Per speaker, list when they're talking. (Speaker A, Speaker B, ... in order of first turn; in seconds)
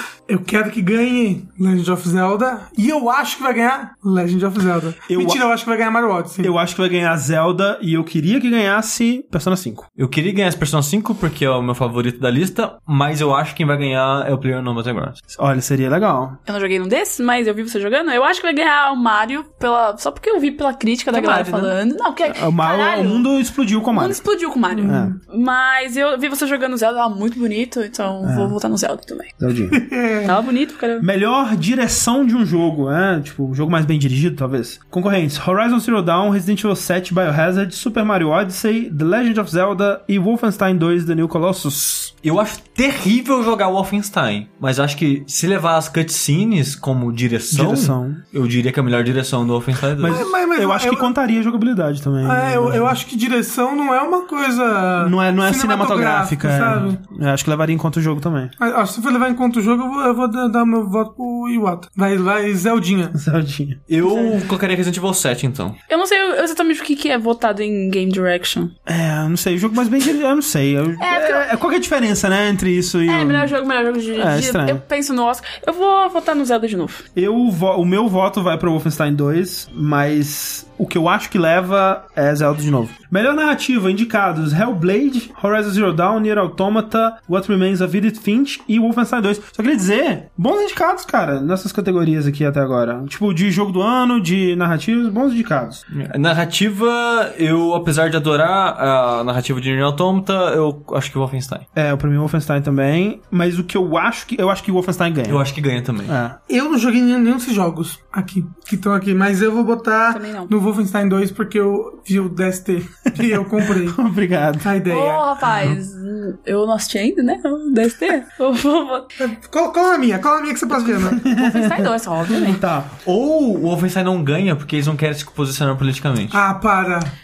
Speaker A: 0.3-6.5, 24.7-25.1, 29.7-30.4, 50.1-51.1, 52.2-57.0, 58.6-63.2, 106.5-114.0, 114.6-115.3, 119.2-121.2, 126.3-127.1
Speaker B: 5.1-5.4, 6.4-9.9, 15.3-16.4, 22.3-24.2, 24.9-25.1, 28.2-28.6, 29.4-29.8, 31.0-42.1, 47.5-48.2, 50.0-53.0, 55.0-58.5, 63.1-63.8, 68.9-73.5, 74.1-74.8, 77.2-95.8, 101.8-105.4, 106.1-106.4, 113.2-114.7, 121.1-123.0
Speaker C: 10.0-15.2, 21.1-21.7, 42.2-50.3, 63.9-65.8, 95.9-101.7, 105.3-106.2, 123.0-126.4
Speaker D: 16.5-23.3, 23.9-29.3, 30.2-31.1, 64.0-64.4, 65.9-68.7, 71.0-71.5, 73.1-77.0, 110.1-110.5, 114.9-119.1, 120.8-122.6